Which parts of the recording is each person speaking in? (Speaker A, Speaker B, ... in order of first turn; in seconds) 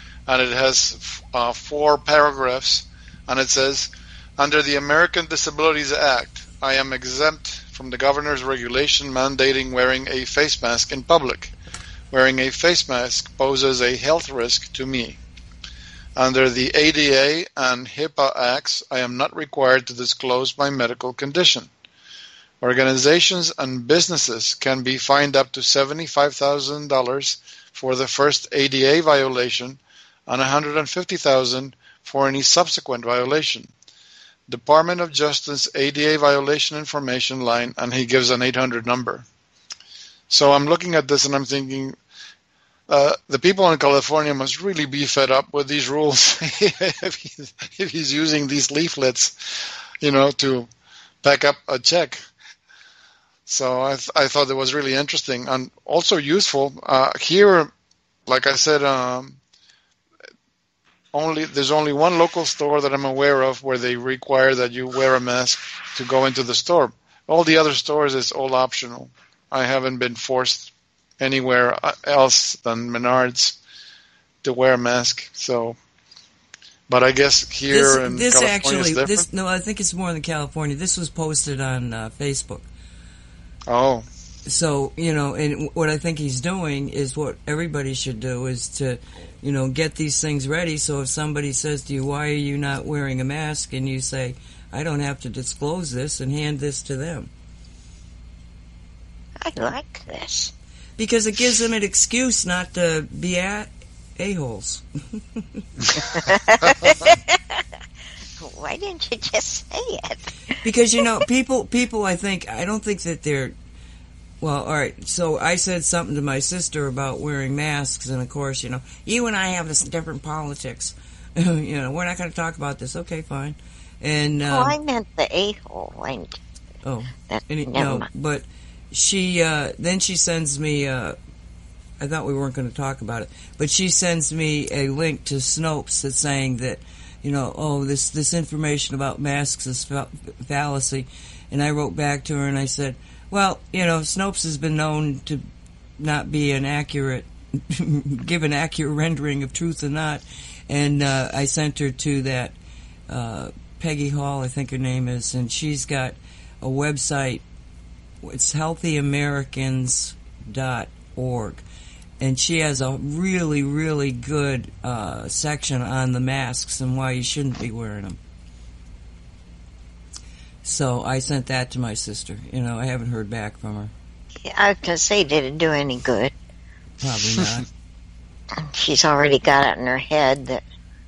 Speaker A: 0.3-11.5, 12.1-15.2, 16.1-21.7, 22.6-33.7, 34.5-39.3, 40.3-42.0, 42.9-50.7, 51.2-52.2, 53.5-57.7, 58.3-59.4, 61.1-73.6, 74.4-75.8, 76.9-79.2, 83.7-84.0
Speaker B: 77.7-82.7, 84.5-97.3, 101.0-105.6, 110.6-113.5, 114.4-124.8, 126.8-131.2, 132.0-145.4, 146.0-152.6, 153.1-157.4, 158.2-161.6, 162.2-168.2, 170.6-173.9, 177.0-177.7
Speaker C: 99.4-100.5, 106.1-107.6, 108.4-110.5, 124.5-126.4, 127.3-128.1, 174.4-176.3, 178.5-180.6